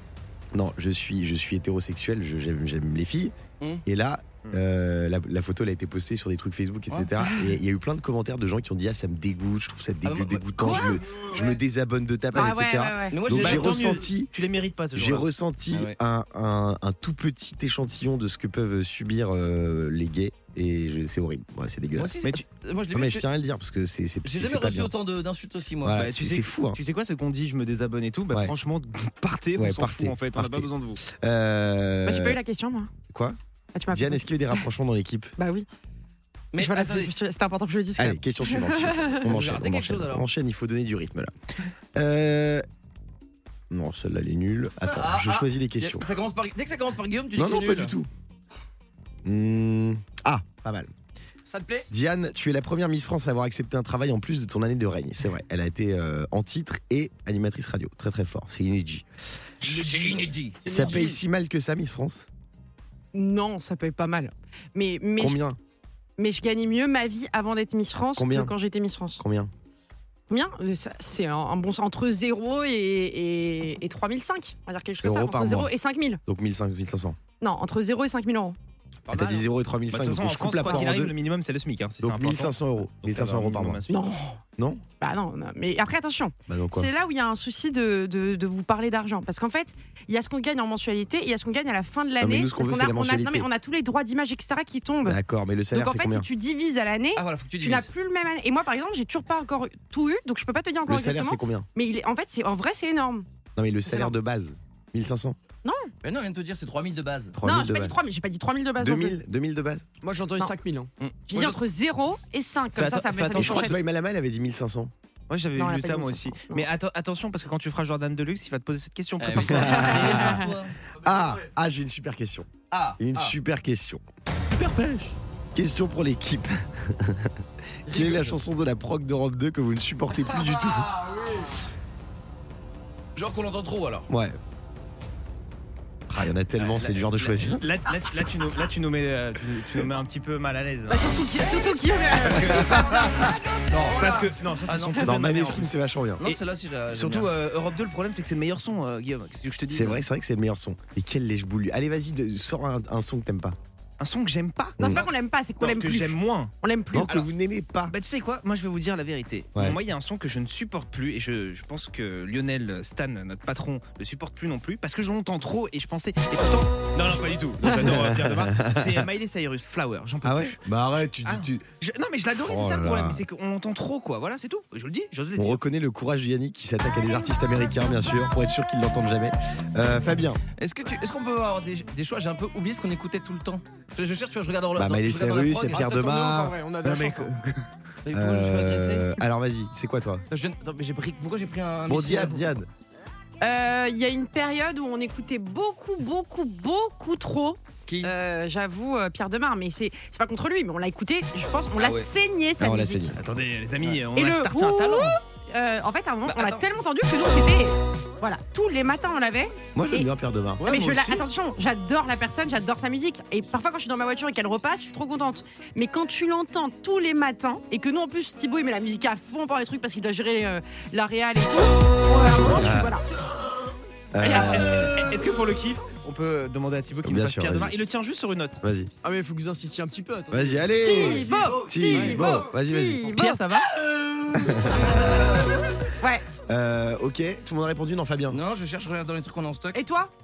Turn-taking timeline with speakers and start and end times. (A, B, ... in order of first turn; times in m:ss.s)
0:00.5-0:03.3 A
0:03.9-0:14.3 A
0:10.0-0:11.2 B
0:10.6-0:10.9 C
0:12.3-0:13.2 C
0:13.1-0:14.0 B
0:13.3-0:15.2 D
0:14.9-0:22.2 A
0:15.7-0:16.0 B
0:22.0-0:23.2 B
0:22.9-0:24.9 A
0:24.2-0:26.0 B
0:25.8-0:26.8 A
0:25.9-0:31.0 D
0:29.6-0:32.4 A
0:32.0-0:32.9 C
0:33.1-0:33.4 A
0:33.7-0:34.6 C
0:33.9-0:35.3 A
0:35.4-0:35.6 C
0:36.5-0:37.1 B
0:36.6-0:39.3 C
0:38.0-0:41.3 A
0:39.2-0:40.3 B
0:41.9-0:42.6 A
0:43.7-0:46.1 A
0:44.9-0:47.9 B
0:47.4-0:48.1 A
0:49.2-0:50.9 A
0:51.5-0:51.8 E
0:51.9-0:59.0 A
0:59.6-1:00.9 B
0:59.7-1:01.2 E
1:00.6-1:02.3 A
1:03.1-1:05.4 C
1:05.2-1:05.6 A
1:06.2-1:09.2 C
1:08.2-1:08.5 A
1:09.2-1:09.5 A
1:10.3-1:16.2 C
1:15.0-1:15.7 A
1:16.2-1:17.2 A
1:17.4-1:18.6 C
1:19.1-1:21.1 A
1:19.9-1:24.1 D
1:22.0-1:23.8 A
1:23.9-1:24.4 C
1:24.6-1:24.8 A
1:25.0-1:35.2 C
1:26.5-1:26.9 A
1:32.2-1:33.5 A
1:35.0-1:36.3 A
1:35.7-1:43.2 C
1:37.2-1:37.9 B
1:40.9-1:41.7 A
1:43.6-1:45.4 A
1:43.9-1:44.1 C
1:45.6-1:45.9 C
1:46.0-1:47.4 B
1:47.4-1:48.0 A
1:47.4-1:49.2 C
1:48.8-1:49.9 A
1:50.0-1:50.9 E
1:51.0-1:51.6 B
1:51.3-1:53.8 C
1:52.8-1:53.8 D
1:53.3-1:54.9 A
1:55.3-2:00.4 D
1:55.6-1:56.7 C
1:59.2-2:00.7 B
1:59.4-2:00.4 A
1:59.6-2:00.5 C
2:01.0-2:04.0 A
2:02.7-2:03.4 B
2:04.5-2:05.2 D
2:05.6-2:10.9 A
2:07.9-2:08.4 B
2:13.2-2:14.1 B
2:14.1-2:14.4 A
2:16.1-2:17.6 A
2:16.7-2:21.3 D
2:20.9-2:23.0 C
2:22.1-2:23.2 D
2:22.4-2:22.9 A
2:23.7-2:25.1 B
2:23.9-2:25.7 D
2:25.0-2:26.2 A
2:26.2-2:27.3 B
2:27.1-2:30.0 D
2:29.7-2:33.6 A
2:34.0-2:35.0 D
2:34.8-2:37.2 C
2:35.6-2:36.5 D
2:36.9-2:37.9 A
2:37.9-2:50.6 D
2:47.6-2:49.1 A
2:50.2-2:51.7 A
2:51.2-2:55.6 D
2:52.3-2:53.2 A
2:55.4-3:00.4 A
3:00.6-3:05.8 B
3:04.8-3:06.6 A
3:05.7-3:07.3 E
3:06.8-3:07.6 D
3:08.0-3:09.1 B
3:08.1-3:10.2 A
3:10.3-3:12.5 B
3:11.9-3:12.7 A
3:13.4-3:23.1 C
3:21.8-3:22.1 B
3:22.6-3:23.2 A
3:23.2-3:25.2 D
3:24.1-3:30.1 C
3:26.3-3:26.6 B
3:29.7-3:31.2 A
3:30.6-3:43.0 C
3:42.4-3:43.0 A
3:44.1-3:45.1 A
3:44.2-3:48.6 D
3:47.0-3:47.7 A
3:48.6-3:48.9 A
3:49.0-3:52.3 E
3:50.3-3:53.1 A
3:50.8-3:53.6 C
3:53.1-3:53.7 D
3:54.3-3:55.0 A
3:54.6-3:55.6 B
3:56.5-3:58.4 A
3:58.3-3:59.8 B
3:59.7-4:00.1 C